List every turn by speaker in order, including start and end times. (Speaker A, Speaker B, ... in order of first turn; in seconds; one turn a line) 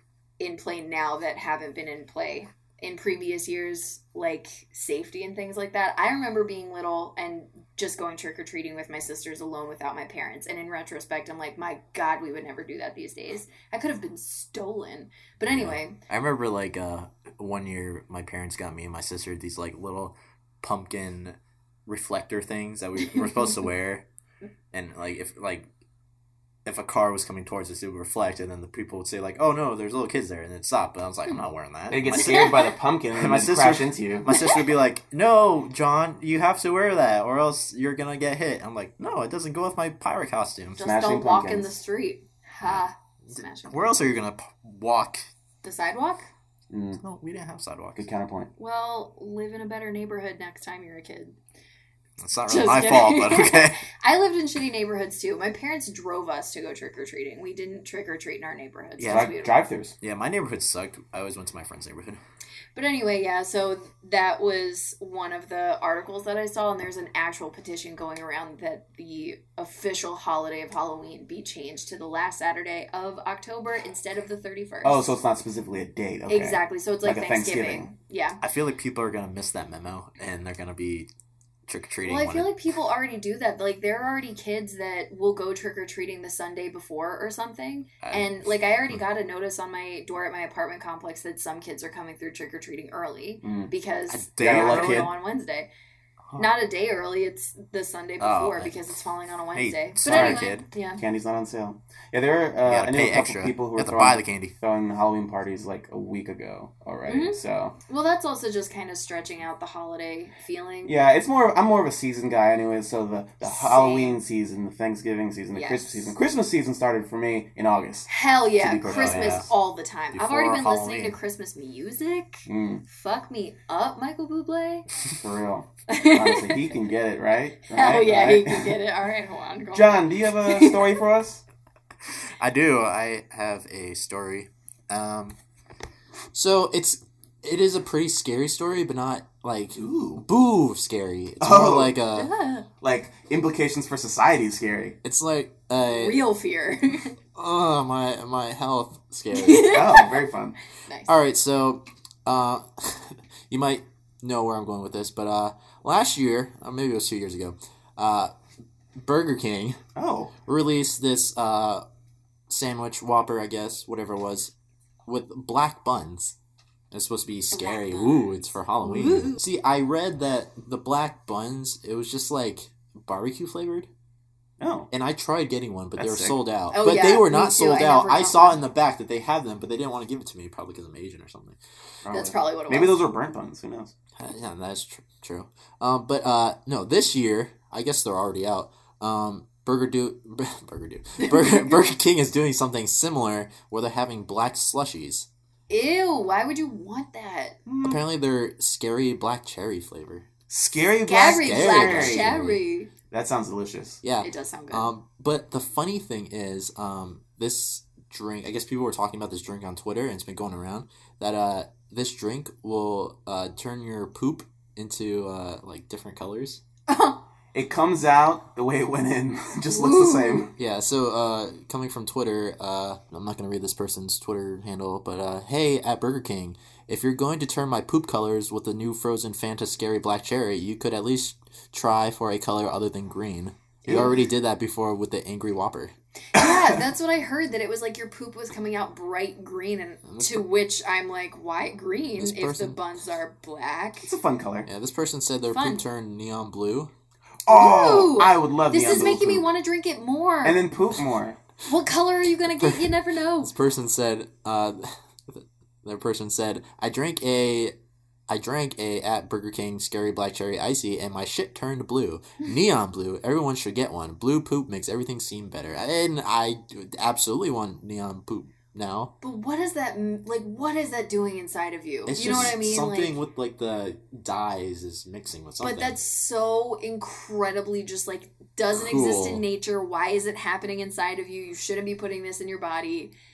Speaker A: 0.4-16.0
Speaker B: 15.5-24.0
Speaker B: 24.7-25.7
Speaker B: 26.6-40.8
Speaker C: 31.9-34.4
Speaker A: 32.2-32.5
Speaker A: 40.8-43.9
Speaker C: 40.8-41.8
Speaker B: 42.6-45.3
Speaker A: 45.6-46.3
Speaker C: 46.7-47.0
Speaker B: 47.0-48.1
Speaker C: 48.0-48.5
Speaker A: 48.6-51.4
Speaker B: 52.2-53.8
Speaker A: 52.5-59.6
Speaker B: 59.0-59.4
Speaker C: 59.1-60.0
Speaker B: 60.0-62.2
Speaker A: 62.8-75.1
Speaker C: 74.8-77.9
Speaker A: 76.3-78.4
Speaker B: 78.4-81.1
Speaker B: 81.7-82.5
Speaker A: 82.0-95.7
Speaker B: 88.0-89.0
Speaker C: 93.4-93.7
Speaker B: 94.1-95.1
Speaker C: 94.4-95.1
Speaker A: 96.4-101.0
Speaker B: 98.2-98.9
Speaker B: 99.5-100.7
Speaker C: 100.1-100.5
Speaker C: 101.0-107.8
Speaker B: 102.7-104.5
Speaker A: 107.1-111.0
Speaker C: 110.8-119.5
Speaker A: 113.4-114.2
Speaker A: 115.5-116.1
Speaker A: 118.1-124.9
Speaker B: 118.8-119.5
Speaker B: 120.1-121.2
Speaker C: 122.5-122.8
Speaker C: 125.2-128.8
Speaker A: 125.9-126.8
Speaker A: 127.7-130.9
Speaker C: 129.7-131.4
Speaker B: 132.4-135.4
Speaker B: 136.3-142.3
Speaker C: 139.8-140.2
Speaker C: 141.4-142.0
Speaker A: 142.1-142.7
Speaker C: 142.8-145.0
Speaker B: 145.0-146.2
Speaker A: 145.8-147.1
Speaker B: 147.3-149.8
Speaker A: 149.3-150.2
Speaker C: 149.7-150.6
Speaker A: 150.9-151.1
Speaker B: 151.1-158.3
Speaker B: 159.0-159.8
Speaker C: 160.0-160.3
Speaker B: 160.5-161.8
Speaker B: 162.5-164.5
Speaker B: 165.1-166.3
Speaker B: 166.9-173.9
Speaker A: 167.5-169.4
Speaker C: 174.6-174.9
Speaker B: 174.9-181.6
Speaker C: 176.0-176.4
Speaker A: 176.7-178.6
Speaker C: 182.0-183.9
Speaker A: 182.1-183.0
Speaker B: 184.2-195.3
Speaker A: 191.2-191.7
Speaker A: 195.7-197.6
Speaker C: 197.7-198.0
Speaker B: 197.8-200.3
Speaker C: 200.5-202.3
Speaker A: 201.1-202.9
Speaker B: 201.4-202.6
Speaker C: 203.1-204.0
Speaker B: 204.0-216.6
Speaker A: 204.2-204.9
Speaker A: 216.9-217.2
Speaker C: 217.5-220.5
Speaker A: 219.7-220.5
Speaker B: 220.6-235.9
Speaker A: 233.8-234.2
Speaker C: 233.8-234.2
Speaker A: 236.3-244.1
Speaker C: 236.4-236.8
Speaker B: 240.1-240.4
Speaker B: 242.2-242.8
Speaker C: 244.0-244.7
Speaker B: 244.7-246.9
Speaker A: 245.5-245.8
Speaker C: 247.5-249.5
Speaker A: 247.5-250.6
Speaker C: 250.4-251.4
Speaker A: 251.7-253.5
Speaker B: 253.4-257.8
Speaker B: 258.3-269.1
Speaker A: 269.2-273.2
Speaker B: 272.1-276.0
Speaker A: 275.6-283.1
Speaker B: 278.7-279.4